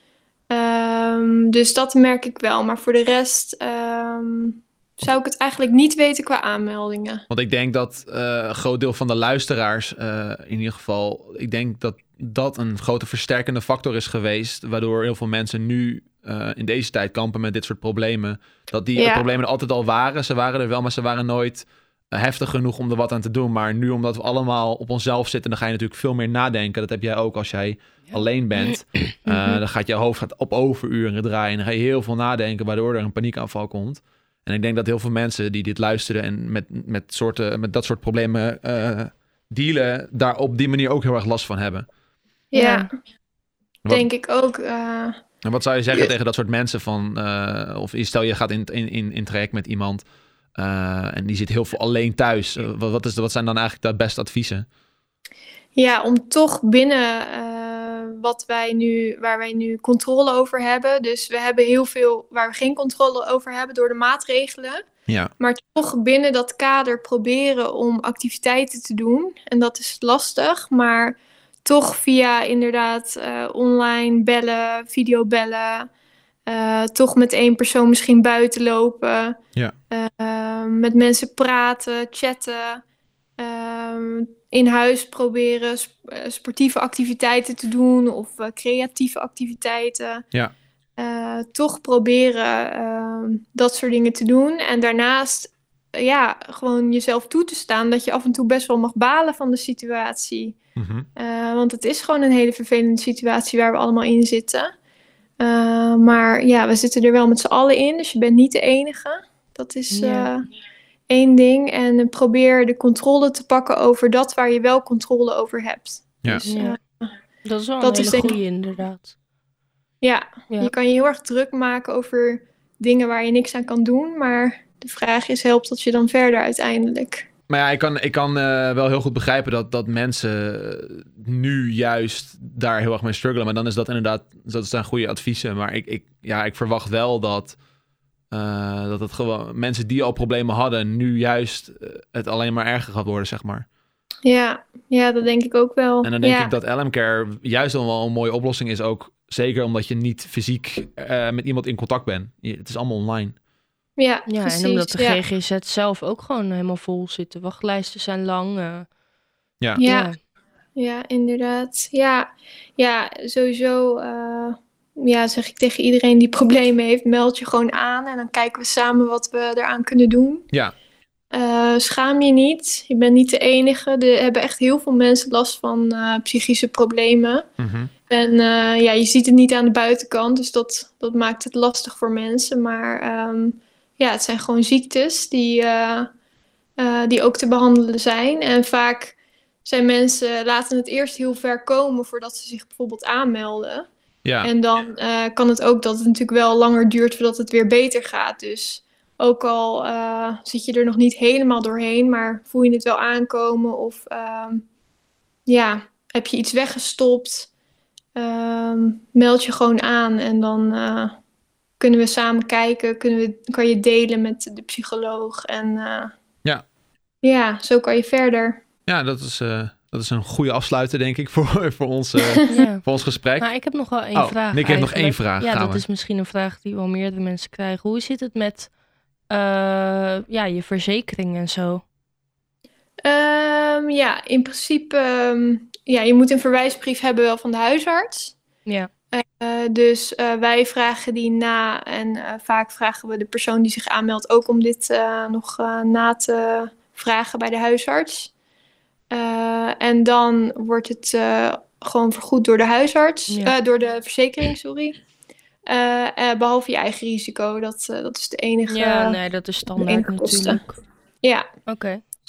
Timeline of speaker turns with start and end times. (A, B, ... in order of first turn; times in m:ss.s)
0:00.5-0:07.2 A
0:07.3-0:41.9 B
0:19.0-0:19.2 A
0:29.2-0:29.6 C
0:42.5-0:42.9 A
0:42.5-0:42.9 C
0:43.9-0:45.2 A
0:45.4-0:50.0 B
0:50.6-0:54.6 B
0:55.8-1:04.8 A
1:05.4-1:15.9 A
1:16.5-1:19.4 A
1:19.9-1:22.8 A
1:23.4-1:30.2 A
1:31.0-1:40.6 A
1:40.8-1:41.1 B
1:41.2-1:44.7 A
1:45.4-1:50.5 A
1:49.9-1:50.3 C
1:51.1-1:57.1 A
1:56.5-1:56.8 C
1:57.4-1:59.1 C
1:57.8-1:58.4 A
2:00.0-2:07.3 A
2:07.5-2:17.6 B
2:18.3-2:23.6 B
2:24.2-2:26.5 A
2:26.0-2:33.3 B
2:34.0-2:35.2 A
2:34.3-2:38.9 C
2:39.8-2:40.1 A
2:39.8-2:40.2 C
2:40.8-2:50.4 A
2:51.3-2:57.4 A
2:57.6-2:57.9 B
2:58.1-3:06.1 A
3:06.8-3:13.9 A
3:14.2-3:14.5 B
3:14.4-3:24.6 A
3:25.5-3:27.5 A
3:28.2-3:31.2 A
3:31.8-3:36.1 A
3:37.2-3:38.6 A
3:38.9-3:43.5 B
3:42.2-3:42.6 A
3:42.5-3:42.8 C
3:43.4-3:48.7 C
3:44.1-3:45.8 B
3:49.3-3:51.8 C
3:53.0-3:58.3 A
3:59.1-4:08.3 A
4:09.1-4:15.0 A
4:13.3-4:13.5 C
4:15.6-4:19.2 A
4:18.7-4:20.8 C
4:19.8-4:20.6 A
4:21.7-4:22.0 C